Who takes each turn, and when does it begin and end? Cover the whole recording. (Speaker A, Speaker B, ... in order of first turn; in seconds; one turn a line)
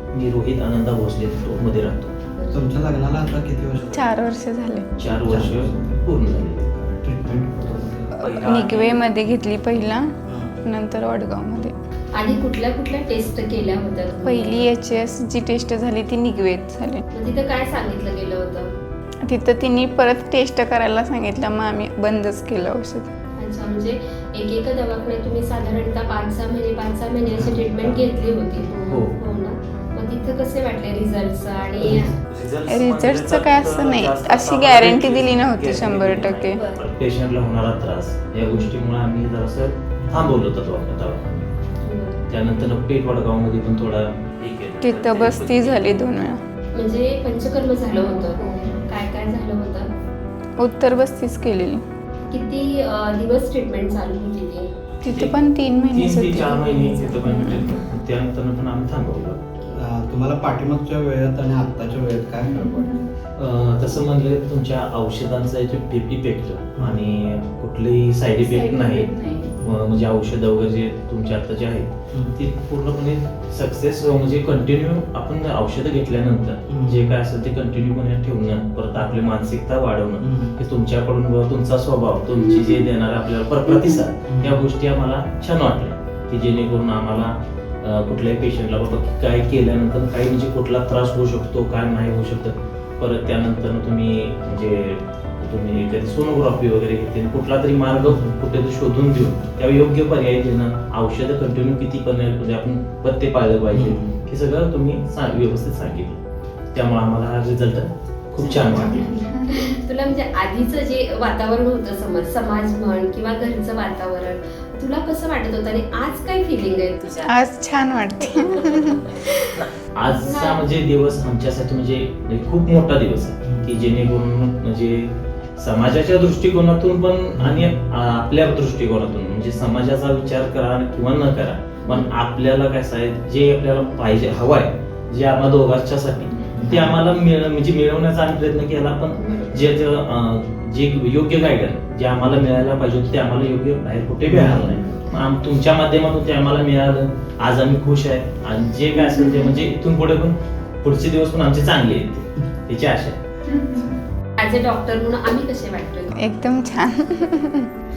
Speaker A: 0.1-2.1
Speaker B: 2.3-2.7
Speaker C: 2.5-4.0
Speaker D: 3.9-4.9
Speaker A: 5.0-6.7
Speaker C: 5.1-6.0
Speaker C: 6.6-8.1
Speaker A: 8.1-9.0
Speaker D: 8.2-10.1
Speaker C: 10.3-10.6
Speaker D: 10.6-11.7
Speaker B: 12.1-14.7
Speaker D: 14.2-17.0
Speaker B: 17.1-18.7
Speaker D: 19.2-23.1
Speaker B: 23.4-32.1
Speaker A: 28.9-29.1
Speaker A: 31.8-41.5
Speaker D: 32.7-36.6
Speaker B: 38.4-38.7
Speaker B: 41.8-42.2
Speaker A: 42.3-46.1
Speaker D: 44.8-46.4
Speaker B: 46.7-49.9
Speaker D: 50.6-51.8
Speaker B: 52.3-54.7
Speaker D: 55.0-57.7
Speaker A: 55.0-55.3
Speaker A: 55.9-59.5
Speaker C: 59.7-63.0
Speaker D: 62.4-63.0
Speaker A: 63.4-106.2
Speaker C: 66.8-67.0
Speaker D: 68.4-69.6
Speaker C: 72.1-72.3
Speaker C: 76.7-77.1
Speaker C: 80.2-80.6
Speaker C: 84.3-84.6
Speaker C: 98.0-98.4
Speaker C: 103.7-104.1
Speaker A: 106.7-109.1
Speaker B: 108.4-117.3
Speaker D: 108.9-109.8
Speaker D: 117.2-119.5
Speaker B: 118.3-118.8
Speaker A: 119.5-153.2
Speaker B: 120.0-120.6
Speaker C: 123.4-123.8
Speaker C: 127.4-127.7
Speaker B: 131.8-132.1
Speaker C: 136.5-137.0
Speaker B: 139.1-139.7
Speaker C: 144.3-144.8
Speaker B: 154.4-156.2
Speaker D: 156.2-157.7